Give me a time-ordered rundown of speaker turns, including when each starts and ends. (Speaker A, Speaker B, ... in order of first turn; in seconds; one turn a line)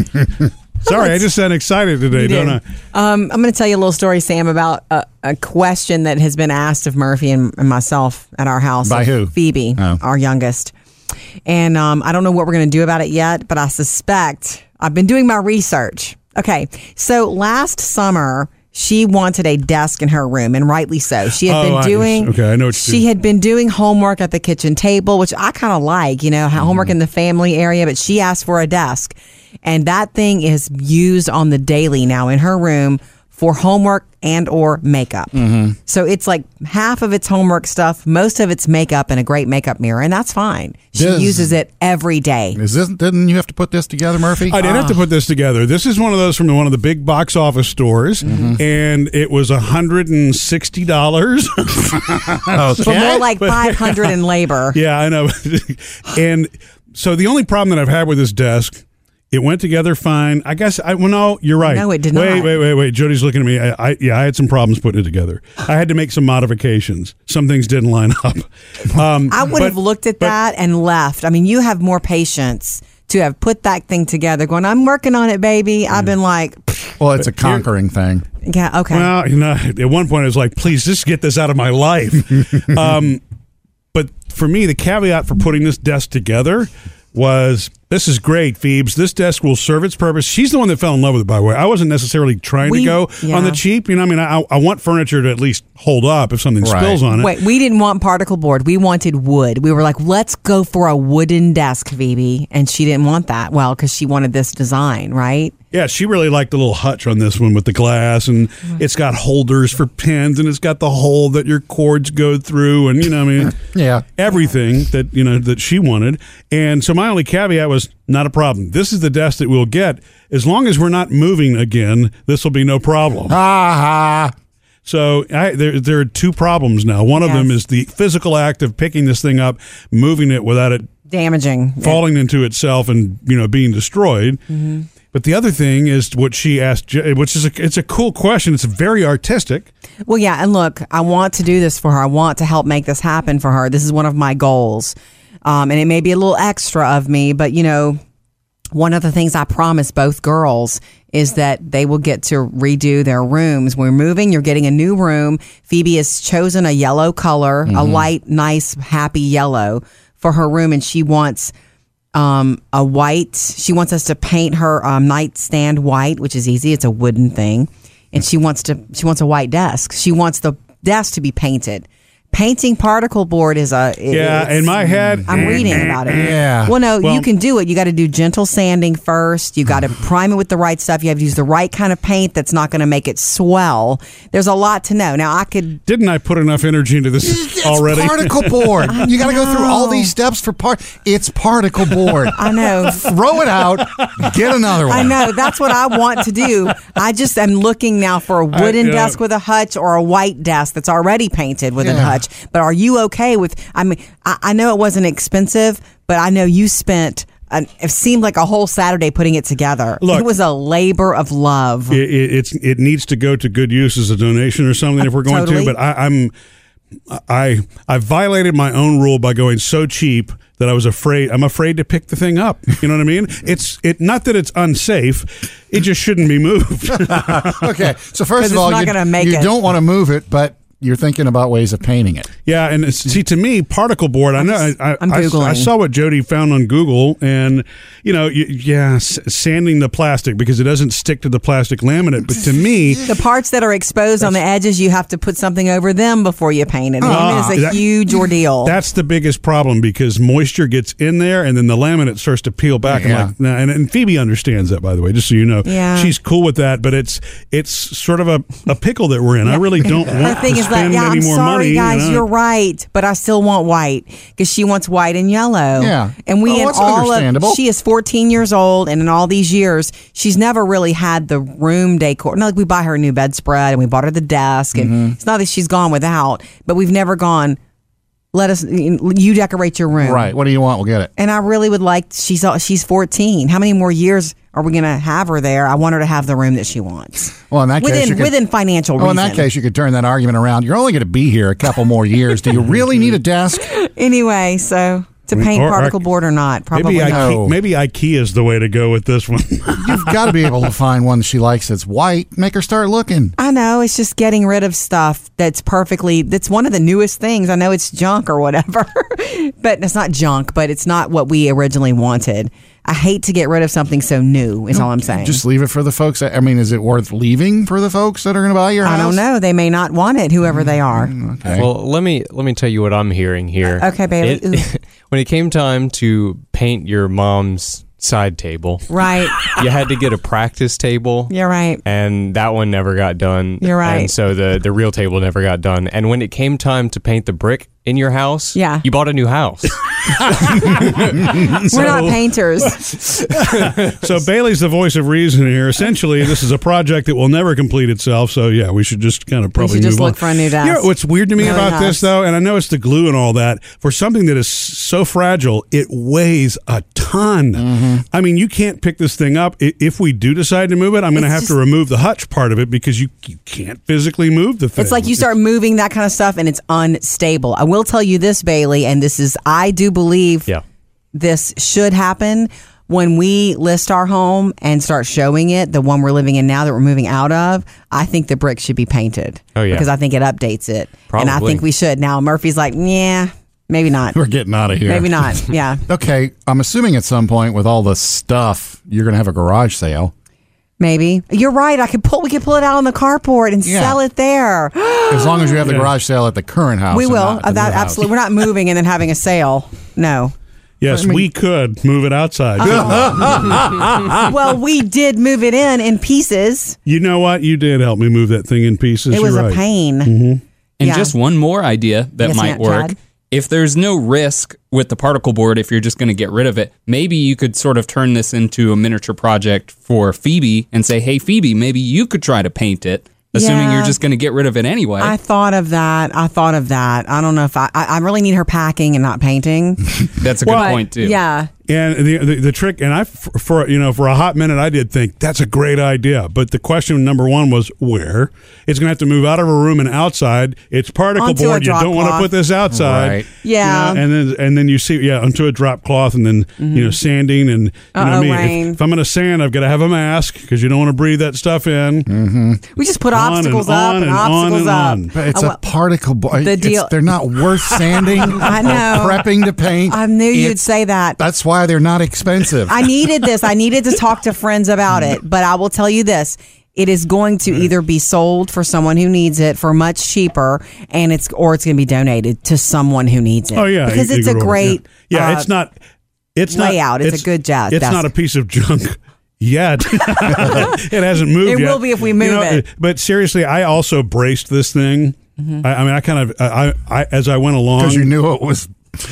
Speaker A: 0.8-2.6
Speaker B: 0.9-1.1
Speaker B: 2.1-10.7
Speaker C: 8.8-10.0
Speaker B: 11.5-35.4
Speaker A: 21.4-23.1
Speaker C: 26.6-26.9
Speaker C: 35.4-35.8
Speaker B: 35.9-42.6
Speaker C: 41.0-41.5
Speaker C: 42.5-45.0
Speaker A: 44.4-52.9
Speaker C: 48.2-48.6
Speaker C: 52.5-53.3
Speaker B: 52.8-54.8
Speaker A: 53.4-54.1
Speaker A: 54.7-70.3
Speaker B: 61.6-62.6
Speaker B: 69.3-77.0
Speaker C: 77.0-78.2
Speaker B: 78.5-79.1
Speaker A: 78.9-83.2
Speaker A: 83.9-97.3
Speaker B: 92.6-93.6
Speaker C: 96.6-97.0
Speaker B: 97.1-105.5
Speaker A: 105.7-113.6
Speaker C: 113.6-114.1
Speaker A: 114.2-123.4
Speaker C: 123.3-124.3
Speaker A: 124.8-130.9
Speaker B: 127.2-127.5
Speaker B: 131.1-132.0
Speaker A: 131.8-134.4
Speaker B: 134.5-134.9
Speaker A: 135.1-139.7
Speaker B: 140.1-144.9
Speaker B: 145.4-148.0
Speaker B: 148.7-161.5
Speaker C: 157.7-158.1
Speaker B: 162.2-185.8
Speaker A: 174.1-176.3
Speaker C: 175.1-176.8
Speaker A: 177.0-177.3
Speaker A: 185.9-188.9
Speaker C: 187.2-195.3
Speaker B: 188.9-190.1
Speaker B: 192.3-193.1
Speaker B: 194.8-212.0
Speaker A: 198.5-199.2
Speaker C: 201.8-202.2
Speaker A: 210.0-210.3
Speaker A: 211.9-216.3
Speaker B: 215.0-215.8
Speaker A: 217.1-227.8
Speaker C: 227.0-232.3
Speaker B: 228.4-229.5
Speaker A: 232.5-243.1
Speaker B: 234.4-235.7
Speaker B: 243.1-248.8
Speaker C: 247.0-247.5
Speaker A: 247.1-247.8
Speaker A: 248.6-262.2
Speaker C: 252.9-253.3
Speaker B: 255.7-256.1
Speaker B: 260.1-277.6
Speaker C: 265.8-267.6
Speaker C: 274.8-275.1
Speaker B: 278.3-280.3
Speaker C: 280.0-281.1
Speaker B: 281.2-289.5
Speaker C: 287.5-288.4
Speaker C: 289.0-293.7
Speaker B: 293.6-297.4
Speaker A: 295.3-296.0
Speaker A: 296.7-300.3
Speaker C: 297.0-297.6
Speaker C: 299.8-303.4
Speaker B: 303.4-315.4
Speaker C: 314.7-319.2
Speaker B: 318.8-321.1
Speaker C: 320.8-321.7
Speaker D: 321.5-328.9
Speaker B: 323.7-324.7
Speaker B: 328.9-329.7
Speaker D: 329.5-331.3
Speaker B: 331.3-331.8
Speaker D: 331.9-342.0
Speaker B: 333.6-334.1
Speaker B: 338.6-338.9
Speaker B: 341.5-342.9
Speaker A: 341.8-342.2
Speaker A: 343.3-365.3
Speaker B: 349.6-352.1
Speaker C: 357.6-358.0
Speaker B: 361.1-361.5
Speaker B: 364.8-370.5
Speaker B: 371.1-384.2
Speaker D: 379.6-379.9
Speaker D: 381.1-381.6
Speaker C: 384.1-390.1
Speaker B: 384.9-385.8
Speaker B: 390.8-395.6
Speaker C: 393.6-394.0
Speaker C: 395.1-398.1
Speaker A: 395.6-395.9
Speaker B: 396.9-400.3
Speaker A: 400.8-404.2
Speaker C: 400.9-401.3
Speaker B: 402.6-403.1
Speaker C: 402.6-403.9
Speaker B: 404.2-406.8
Speaker A: 406.9-410.4
Speaker B: 409.1-410.1
Speaker E: 410.8-425.1
Speaker B: 410.8-411.1
Speaker B: 412.2-412.9
Speaker B: 423.3-424.0
Speaker B: 425.0-431.5
Speaker E: 430.2-431.2
Speaker A: 430.5-430.8
Speaker A: 431.7-452.1
Speaker B: 441.2-442.3
Speaker C: 442.7-443.3
Speaker B: 443.4-444.0
Speaker B: 446.6-447.0
Speaker B: 447.9-448.8
Speaker C: 452.1-452.6
Speaker B: 452.7-455.6
Speaker A: 453.1-455.1
Speaker C: 455.1-460.6
Speaker B: 456.4-459.3
Speaker B: 459.9-461.2
Speaker C: 461.2-462.9
Speaker B: 462.7-475.5
Speaker A: 473.5-475.8
Speaker A: 476.4-488.1
Speaker B: 476.5-478.1
Speaker B: 480.2-480.8
Speaker B: 481.4-482.7
Speaker C: 487.8-488.8